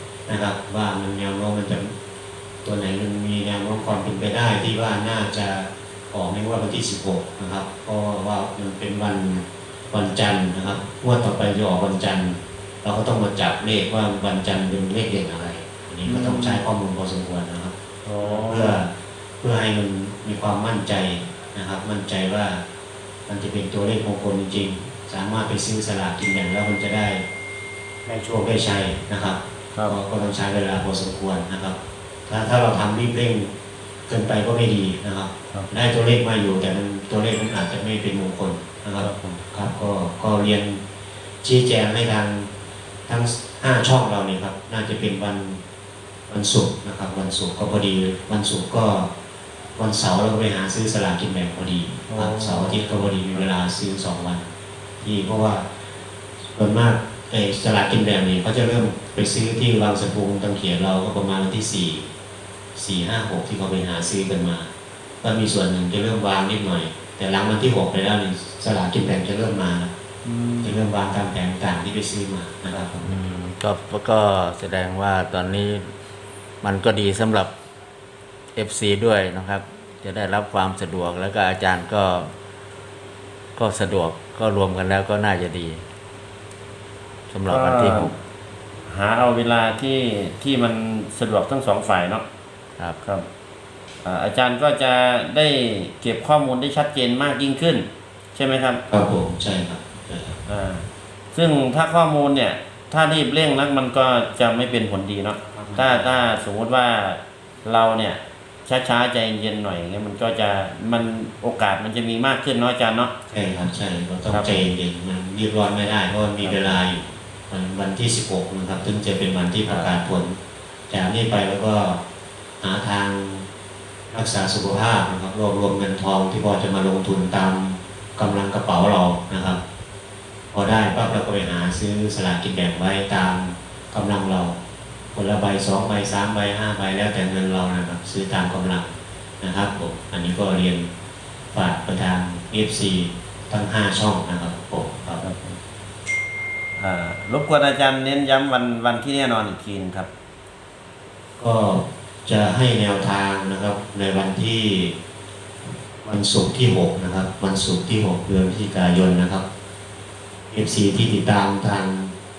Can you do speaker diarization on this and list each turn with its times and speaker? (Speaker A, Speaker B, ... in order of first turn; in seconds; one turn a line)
Speaker A: 0.3-1.9
Speaker A: 2.6-22.6
Speaker B: 16.0-16.6
Speaker B: 18.0-18.8
Speaker A: 23.3-27.2
Speaker A: 28.1-33.5
Speaker A: 34.1-40.8
Speaker B: 39.0-39.4
Speaker A: 41.4-42.5
Speaker A: 43.1-45.6
Speaker A: 46.3-49.1
Speaker A: 49.8-54.5
Speaker B: 52.0-53.5
Speaker A: 55.0-55.7
Speaker A: 56.5-62.1
Speaker A: 62.7-64.7
Speaker A: 65.2-69.9
Speaker B: 70.2-70.8
Speaker A: 70.6-73.0
Speaker B: 72.7-73.1
Speaker C: 73.0-75.9
Speaker C: 76.6-77.5
Speaker C: 78.5-82.3
Speaker C: 83.5-85.8
Speaker C: 87.3-88.1
Speaker B: 87.5-88.1
Speaker B: 88.9-92.2
Speaker B: 94.0-98.8
Speaker A: 98.9-100.4
Speaker B: 100.4-113.1
Speaker A: 105.5-106.2
Speaker A: 113.3-120.4
Speaker B: 114.3-114.7
Speaker B: 116.4-116.8
Speaker B: 119.7-119.9
Speaker A: 120.9-122.0
Speaker A: 122.6-123.4
Speaker A: 124.1-129.6
Speaker A: 130.5-134.6
Speaker A: 135.1-140.9
Speaker A: 141.5-145.2
Speaker B: 145.2-145.6
Speaker B: 146.8-150.1
Speaker A: 151.4-154.9
Speaker A: 156.0-159.4
Speaker A: 160.5-162.1